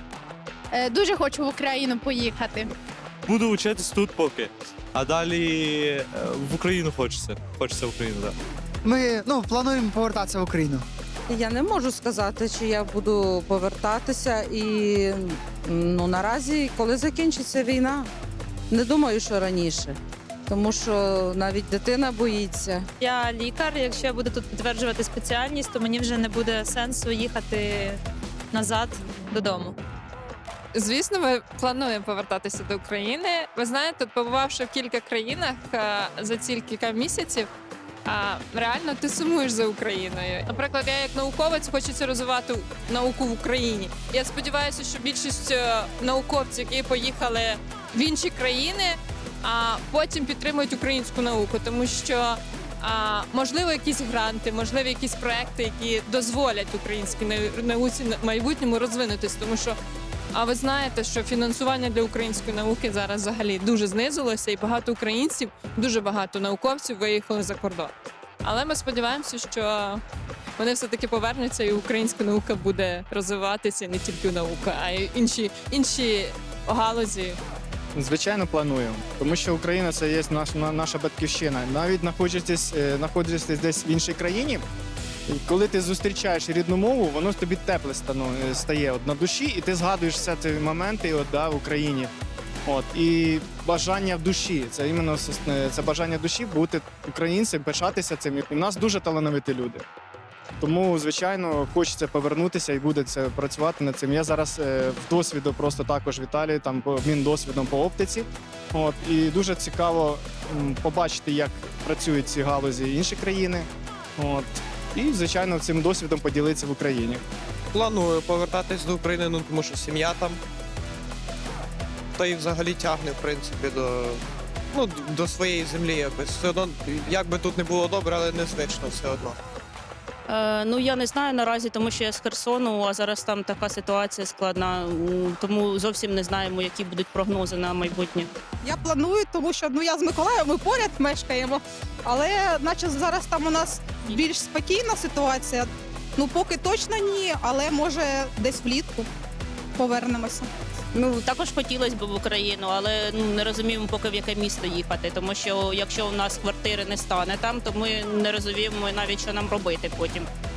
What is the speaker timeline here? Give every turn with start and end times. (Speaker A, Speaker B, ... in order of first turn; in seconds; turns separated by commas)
Speaker A: 0.7-2.7, Speaker B: 3.3-8.3, Speaker C: 8.8-10.9, Speaker D: 11.3-18.1, Speaker D: 18.7-22.9, Speaker E: 23.2-27.9, Speaker E: 28.5-29.7, Speaker F: 30.7-37.5, Speaker F: 38.0-59.8, Speaker F: 60.3-70.0, Speaker F: 70.6-77.4, Speaker G: 78.0-84.6, Speaker G: 85.3-92.1, Speaker G: 92.7-99.9, Speaker G: 100.6-117.2, Speaker H: 117.7-120.4, Speaker H: 122.2-124.2, Speaker H: 124.7-129.4, Speaker I: 130.3-138.3, Speaker J: 138.6-149.1, Speaker J: 149.8-150.5, Speaker I: 150.9-160.3